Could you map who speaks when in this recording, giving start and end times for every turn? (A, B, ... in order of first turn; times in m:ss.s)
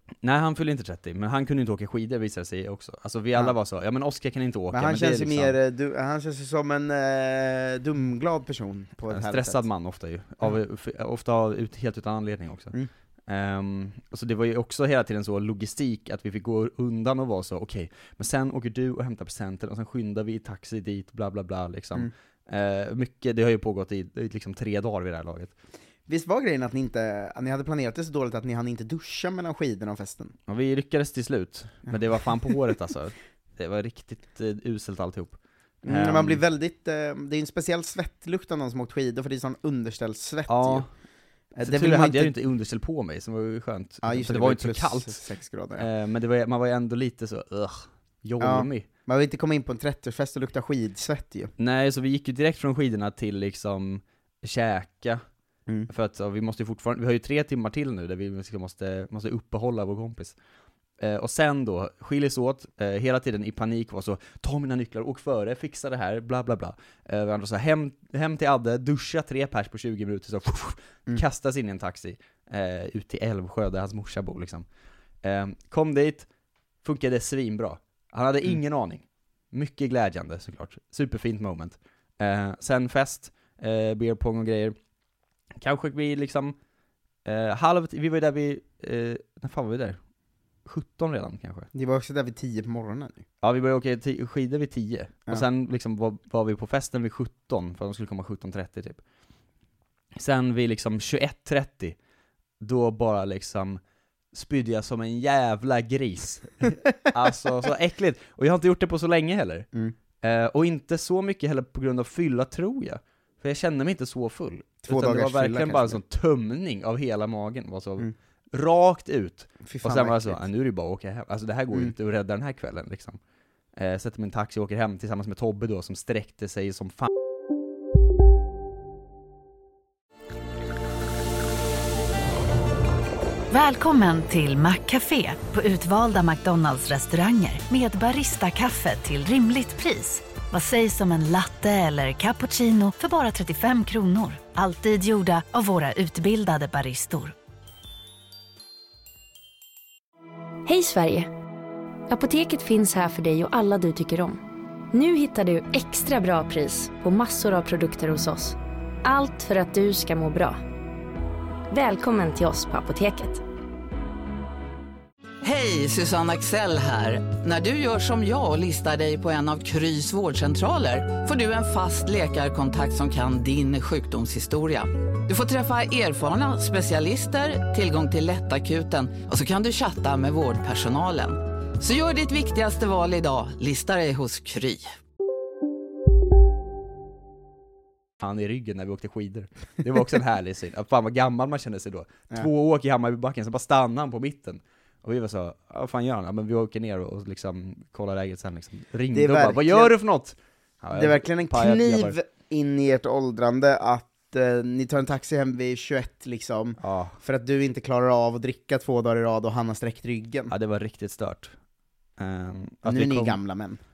0:00.2-0:05.6 A
0:04.7-0:09.6 B
0:09.0-0:25.5 A
0:26.1-0:30.3 B
0:30.5-0:36.4 A
0:35.9-0:40.9 B
0:40.5-0:40.9 A
0:41.6-0:42.3 B
0:41.6-0:48.9 A
0:44.0-0:45.8 B
0:48.4-0:51.5 B
0:51.6-0:55.2 A
0:55.9-1:00.3 A
1:01.0-1:14.6 A
1:15.2-1:16.3 A
1:16.8-1:24.8 A
1:25.6-1:26.6 A
1:27.2-1:30.0 A
1:30.7-1:31.7 A
1:31.8-1:33.2 B
1:33.4-1:39.0 A
1:40.2-1:42.0 A
1:42.6-1:43.8 A
1:44.3-1:49.7 A
1:50.2-2:03.2 A
1:54.9-1:56.0 B
1:59.6-2:00.4 B
2:03.8-2:07.1 A
2:13.5-2:27.3 C
2:30.8-2:31.2 D
2:32.2-2:32.6 D
2:35.0-2:37.0 D
2:37.7-2:38.5 D
2:41.8-2:43.4 D
2:45.4-3:04.9 E
3:08.2-3:22.2 A
3:19.1-3:19.9 B
3:20.9-3:30.5 B
3:26.8-3:27.2 A
3:30.5-3:31.5 A
3:32.2-3:33.4 A
3:32.9-3:33.8 B